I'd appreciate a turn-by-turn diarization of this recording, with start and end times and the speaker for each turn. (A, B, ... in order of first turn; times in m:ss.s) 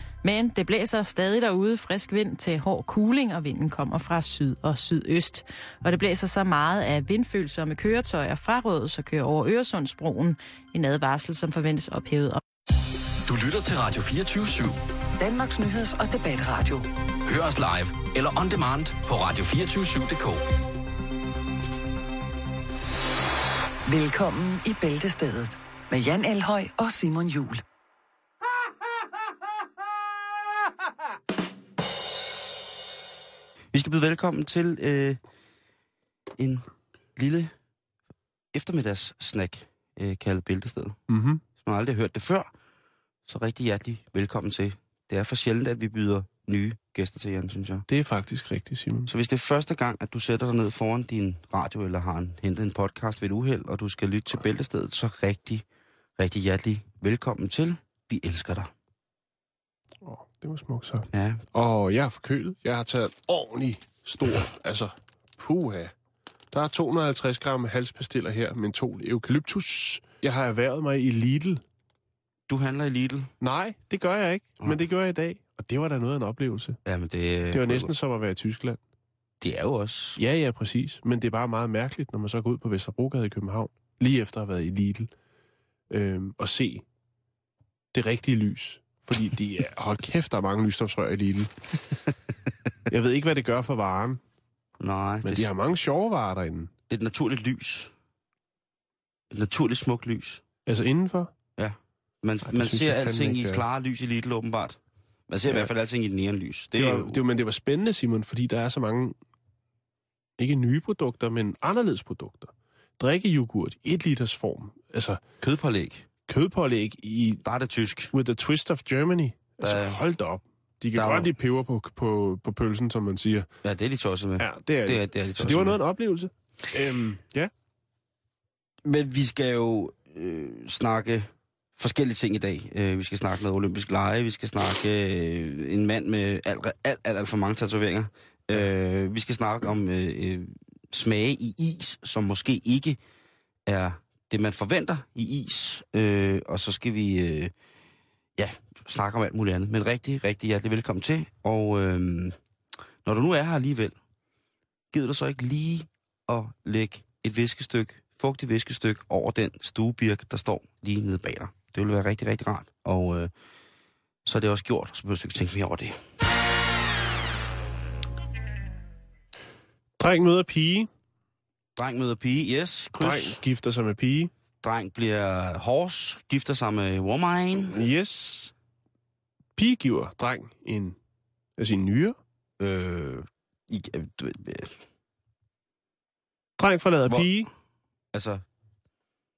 0:00.2-0:12.4 A
0:13.3-0:14.8 B
0:15.2-0:16.8 C
0:17.3-0:20.4 B
0:23.8-0:27.6 C
0:33.7-0:35.2 D
0:36.4-0:37.5 D
0:38.5-0:41.0 D
0:41.1-0:41.4 E
0:41.6-0:42.5 D
0:43.3-0:47.8 D
0:47.9-0:49.1 E
0:49.1-0:55.6 D
0:56.2-0:58.7 D
1:00.0-1:05.9 E
1:01.1-1:01.4 D
1:06.5-1:11.6 E
1:12.5-1:13.3 D
1:13.4-1:16.8 E
1:16.8-1:17.9 D
1:17.5-1:18.8 E
1:19.4-1:20.2 D
1:20.2-1:25.1 E
1:25.9-1:26.8 E
1:27.9-1:31.9 E
1:32.9-1:34.2 E
1:34.8-1:35.5 D
1:35.2-1:36.7 E
1:36.9-1:37.9 D
1:39.3-1:40.4 D
1:40.6-1:41.3 E
1:41.6-1:44.8 D
1:42.4-1:43.6 E
1:45.3-1:47.2 D
1:46.7-1:49.2 E
1:50.4-1:55.2 E
1:55.4-1:56.0 D
1:56.3-1:57.4 E
1:57.4-1:58.1 D
1:58.1-2:03.5 E
1:59.6-2:00.0 D
2:00.9-2:01.3 D
2:03.6-2:05.8 D
2:04.4-2:07.5 E
2:08.8-2:23.0 D
2:23.7-2:27.5 D
2:28.4-2:32.4 D
2:33.0-2:34.0 D
2:34.9-2:43.3 D
2:44.2-2:46.0 D
2:50.0-2:50.9 E
2:51.8-2:53.4 D
2:53.0-2:54.3 E
2:54.6-2:57.8 D
2:57.7-2:58.5 E
2:59.6-3:01.0 E
3:01.6-3:02.2 E
3:02.6-3:04.7 D
3:06.6-3:07.5 E
3:08.1-3:08.4 D